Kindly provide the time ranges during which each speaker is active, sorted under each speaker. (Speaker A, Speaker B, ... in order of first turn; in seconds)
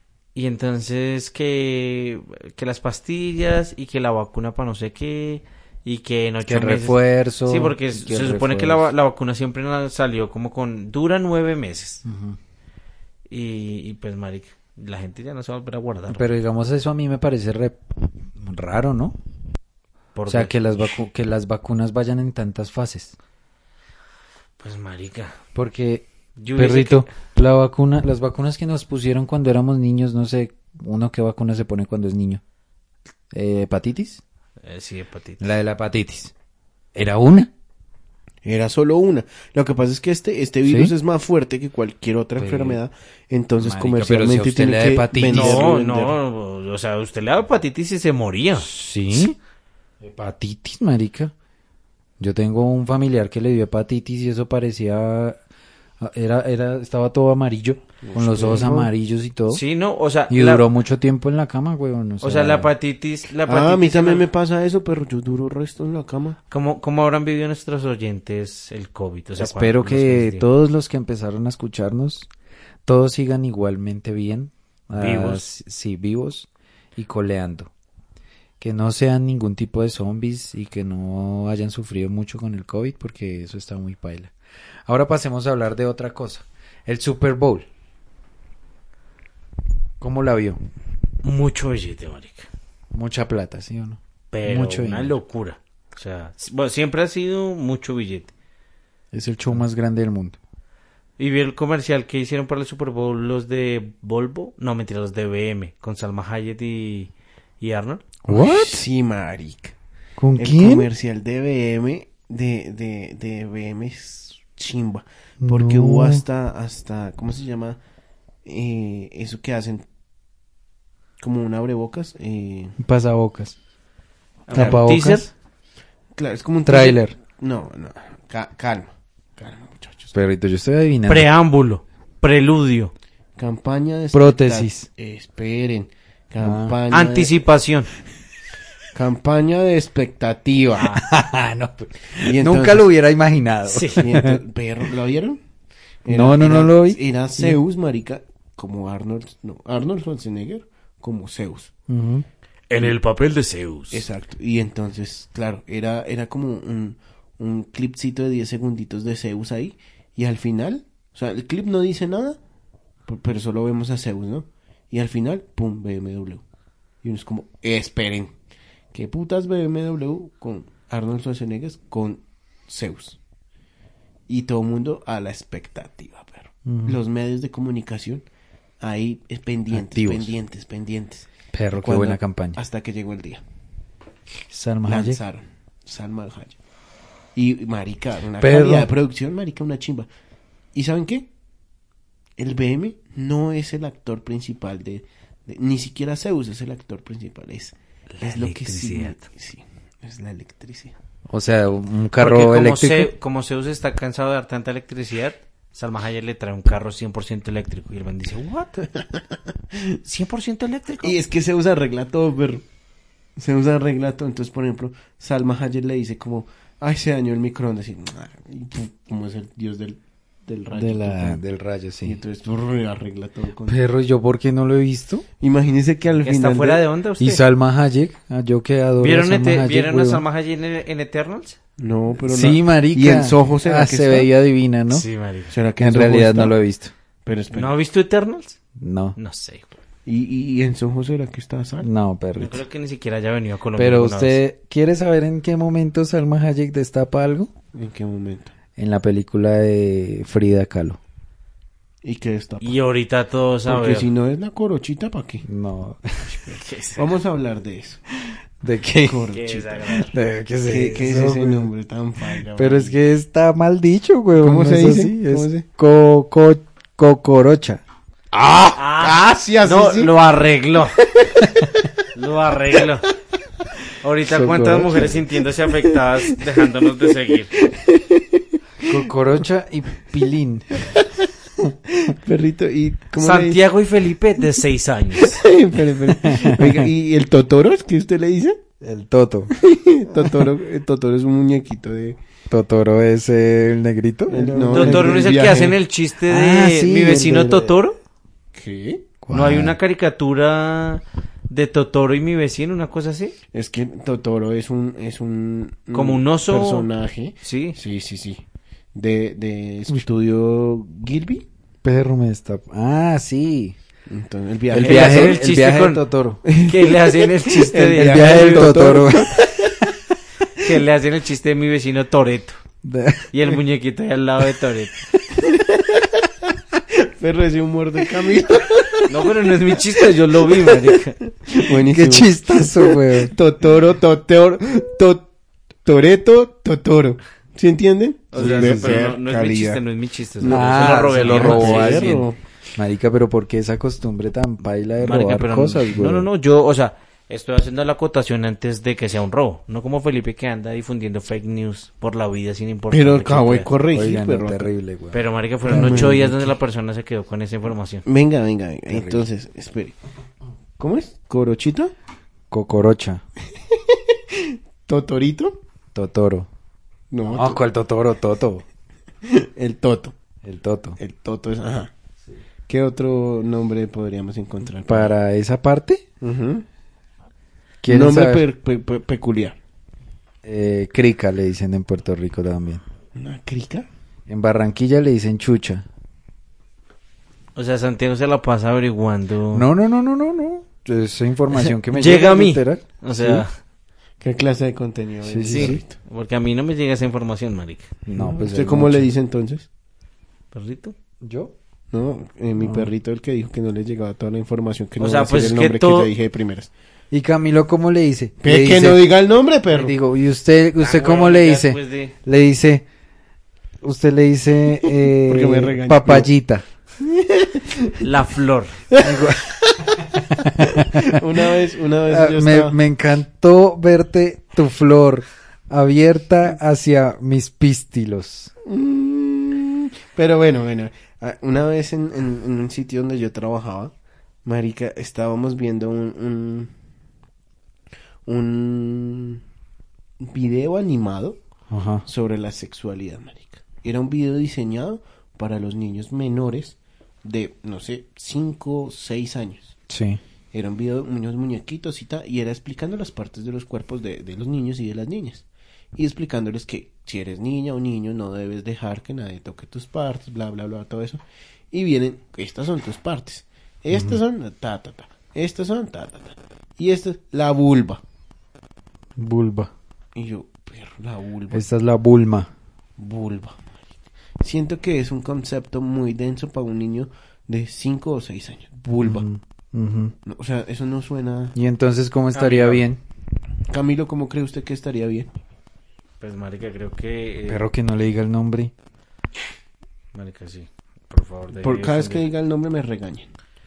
Speaker A: 0.3-12.0, 13.3-16.4, 20.1-20.6, 24.6-25.4, 26.4-27.1, 34.6-35.5, 45.3-49.3, 59.5-60.7, 62.2-64.2, 66.5-70.5, 75.0-75.5, 91.2-92.5, 94.3-98.3, 101.2-108.0, 124.5-125.3, 131.1-132.9, 136.9-137.9, 140.8-141.1, 143.7-144.0, 152.7-154.0, 198.1-199.2, 202.2-208.9, 210.1-211.2, 226.2-227.4, 229.0-231.6, 234.9-235.6, 237.5-238.6, 239.2-239.8, 242.3-244.4, 252.6-254.1, 256.4-257.0, 259.3-260.1, 268.8-271.0, 272.1-273.1, 274.0-277.5, 283.2-285.4, 294.7-298.0, 299.3-303.4, 305.9-306.9, 307.4-307.8, 314.8-316.0, 316.6-318.9, 320.6-322.6, 323.3-324.9, 329.1-331.2, 338.3-342.2, 345.0-353.7, 355.1-358.1, 387.6-389.7, 391.7-393.5, 395.5-397.9, 400.5-400.9, 405.0-406.1, 410.8-412.1, 418.0-418.8, 482.3-482.8, 486.2-487.7, 490.1-492.3
Speaker B: 6.5-8.9, 12.0-12.4, 16.1-17.8, 18.4-19.2, 20.3-23.1, 25.6-32.4, 33.3-34.2, 35.4-36.3, 37.0-37.5, 40.7-40.9, 42.4-42.8, 43.6-45.7, 48.6-49.4, 50.0-51.3, 52.2-55.4, 56.0-59.6, 60.3-62.7, 69.4-72.3, 72.9-77.7, 78.6-84.3, 84.9-87.7, 90.0-90.6, 92.9-95.2, 99.1-100.4, 108.2-108.8, 110.2-110.9, 115.4-116.2, 122.8-123.6, 124.5-125.3, 126.7-127.1, 130.1-131.3, 134.1-134.9, 136.4-136.8, 140.9-144.4, 146.1-147.6, 151.9-152.2, 176.7-177.0, 179.7-180.3, 181.5-182.6, 184.5-185.2, 188.4-188.9, 201.3-203.1, 220.8-222.2, 223.7-225.2, 227.2-230.2, 232.3-235.1, 235.8-236.9, 238.8-239.2, 241.8-242.6, 243.8-247.5, 248.8-251.0, 255.4-256.3, 258.6-259.3, 259.9-261.7, 262.5-267.8, 274.3-275.2, 278.9-280.9, 286.1-286.9, 288.8-289.5, 292.5-295.3, 296.3-297.8, 299.2-299.8, 311.8-313.8, 314.7-316.4, 317.9-319.4, 322.8-323.3, 331.7-333.3, 338.4-339.0, 340.4-342.2, 342.8-346.3, 353.9-356.4, 358.9-359.2, 362.5-363.2, 365.9-366.5, 367.3-368.6, 370.4-371.0, 374.9-376.0, 377.8-378.4, 380.4-382.8, 384.3-385.9, 389.5-393.4, 395.2-395.8, 398.1-399.1, 401.2-401.5, 402.6-402.9, 407.1-409.1, 409.7-412.9, 413.8-416.6, 419.0-419.5, 420.0-421.5, 422.1-428.5, 441.7-442.0, 449.9-450.2, 463.9-464.2, 469.2-469.7, 471.5-472.5, 479.0-480.1, 481.6-483.0, 487.5-488.7
Speaker C: 38.5-46.2, 58.0-58.9, 63.5-66.4, 108.3-109.7, 110.4-117.8, 118.5-119.8, 121.2-122.8, 124.5-124.8, 126.2-130.2, 133.4-137.4, 138.9-141.0, 142.2-142.9, 143.9-145.4, 146.1-151.7, 153.9-162.4, 163.1-166.4, 167.0-168.3, 168.9-173.2, 174.3-178.2, 178.8-183.4, 184.9-186.6, 187.4-190.1, 190.7-191.3, 192.4-200.9, 211.0-212.7, 213.4-221.4, 222.0-223.8, 225.4-226.8, 231.8-234.3, 235.5-236.6, 237.2-237.8, 240.1-241.9, 247.7-248.5, 252.0-252.8, 253.7-255.4, 256.9-258.0, 259.0-260.1, 260.6-263.0, 264.4-265.7, 268.3-270.1, 271.0-271.9, 277.5-279.0, 280.9-281.2, 281.9-283.6, 285.2-288.6, 289.5-292.2, 294.3-295.8, 298.5-299.1, 303.5-308.4, 308.9-311.4, 314.1-315.4, 316.4-319.8, 325.3-326.3, 326.9-330.8, 331.3-335.3, 335.9-339.8, 340.4-342.4, 352.9-354.7, 355.7-356.3, 358.1-359.9, 360.8-361.9, 363.7-365.6, 367.1-367.6, 369.2-370.1, 371.0-371.9, 372.7-375.1, 376.2-376.6, 377.9-379.6, 383.1-383.9, 394.2-395.9, 398.1-399.7, 401.9-406.7, 408.4-409.9, 414.9-416.3, 417.0-418.0, 418.9-422.8, 428.6-433.9, 434.4-436.7, 438.3-439.4, 440.2-441.4, 442.1-449.8, 450.5-468.0, 470.1-471.6, 473.0-473.6, 474.4-479.3, 480.2-481.6, 483.7-485.3, 491.6-493.3